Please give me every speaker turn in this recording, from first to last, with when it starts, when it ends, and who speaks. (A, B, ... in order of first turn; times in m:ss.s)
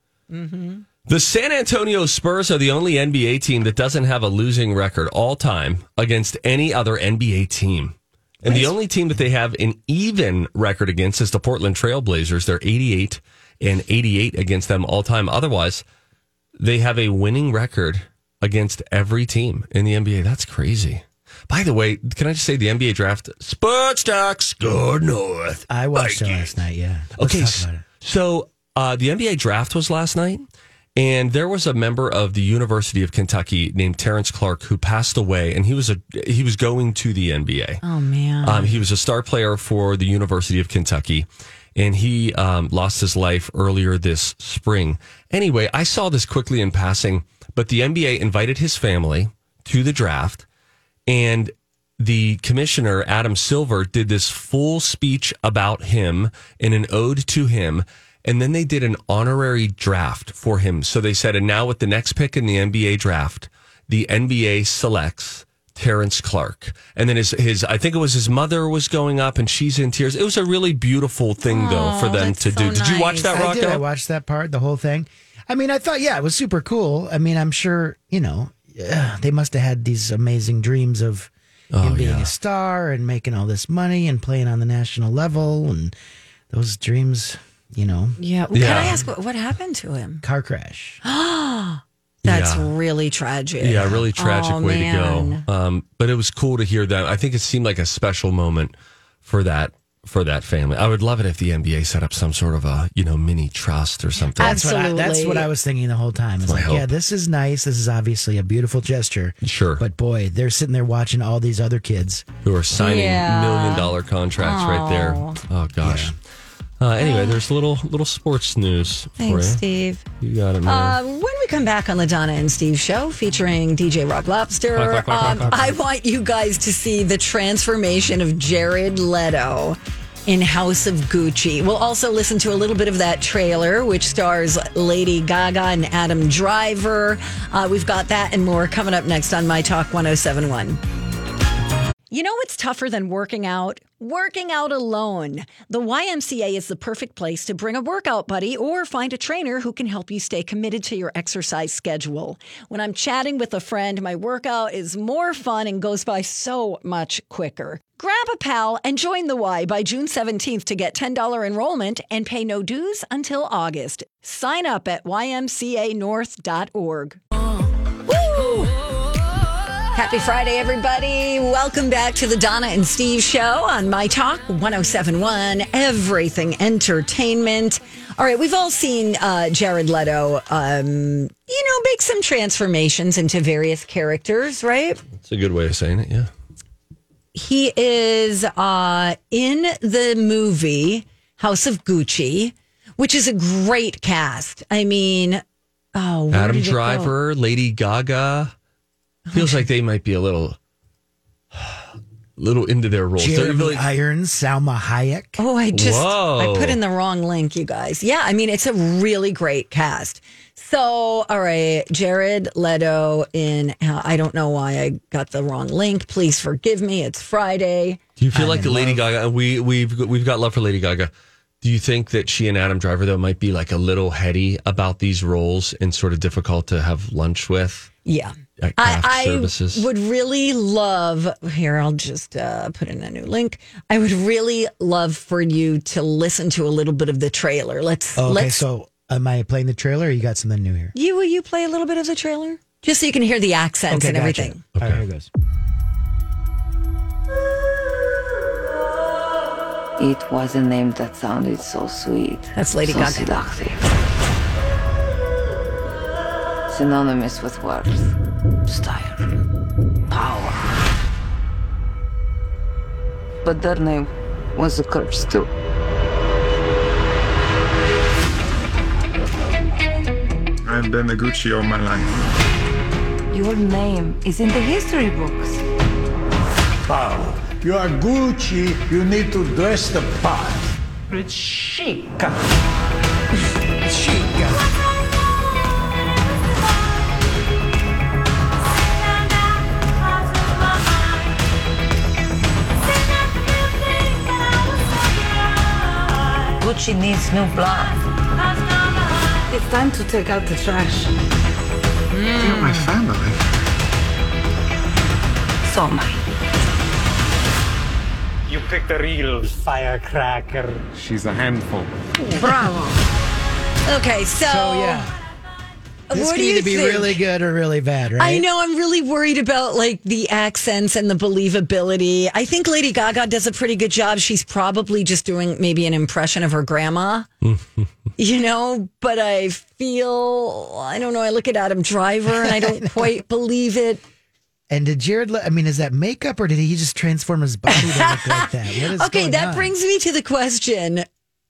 0:00.3-0:00.8 A
0:01.0-0:15.8 B
0:08.4-0:08.7 A
0:16.6-0:26.5 B
0:25.7-0:27.8 C
0:27.2-0:37.8 B
0:37.8-0:38.8 A
0:38.4-0:50.4 B
0:51.1-1:13.8 B
1:11.4-1:13.5 A
1:13.3-1:21.3 C
1:21.7-1:22.3 B
1:21.8-1:25.9 C
1:26.5-1:29.0 C
1:28.2-1:30.2 A
1:28.5-1:29.0 B
1:30.2-1:31.0 C
1:31.0-1:35.4 A
1:32.2-1:32.7 B
1:33.6-1:44.6 B
1:44.4-1:52.2 C
1:44.4-1:45.5 A
1:46.4-1:46.9 B
1:49.4-1:49.8 B
1:52.4-1:56.2 B
1:52.8-1:55.4 A
1:55.8-1:56.1 C
1:56.8-1:59.6 B
1:57.0-1:57.4 A
1:59.2-2:00.0 A
2:00.2-2:01.0 B
2:00.6-2:20.8 A
2:04.8-2:05.8 B
2:22.1-2:47.2 A
2:48.0-2:48.7 A
2:49.9-3:05.0 A
3:05.2-3:06.3 B
3:07.3-3:15.4 A
3:15.9-3:17.1 A
3:16.3-3:18.5 B
3:19.3-3:19.6 A
3:19.3-3:20.6 B
3:21.5-3:21.8 B
3:22.4-3:23.8 B
3:23.2-3:25.4 C
3:25.4-3:38.0 A
3:25.7-3:26.8 B
3:38.2-3:47.9 B
3:38.3-3:39.0 C
3:48.0-3:58.6 A
3:48.6-3:49.8 B
3:58.2-4:00.9 C
4:00.9-4:04.6 A
4:03.9-4:05.3 C
4:04.8-4:05.0 B
4:10.0-4:13.8 D
4:12.5-4:13.3 A
4:16.7-4:18.1 D
4:18.6-4:19.3 D
4:20.1-4:20.6 D
4:23.4-4:25.5 D
4:30.6-4:32.3 E
4:33.3-4:35.6 D
4:36.9-4:42.3 F
4:43.8-4:44.6 C
4:56.6-4:58.0 D
4:59.5-5:01.1 D
5:02.1-5:02.8 A
5:02.4-5:03.4 E
5:05.6-5:06.2 D
5:08.6-5:09.4 E
5:09.6-5:10.5 F
5:10.9-5:12.0 E
5:12.3-5:12.9 D
5:13.8-5:15.0 A
5:14.4-5:15.1 C
5:16.1-5:17.2 A
5:16.1-5:18.5 C
5:18.2-5:27.3 A
5:27.4-5:27.9 B
5:28.2-5:34.0 A
5:32.3-5:33.2 C
5:34.7-5:39.7 C
5:37.7-5:41.0 A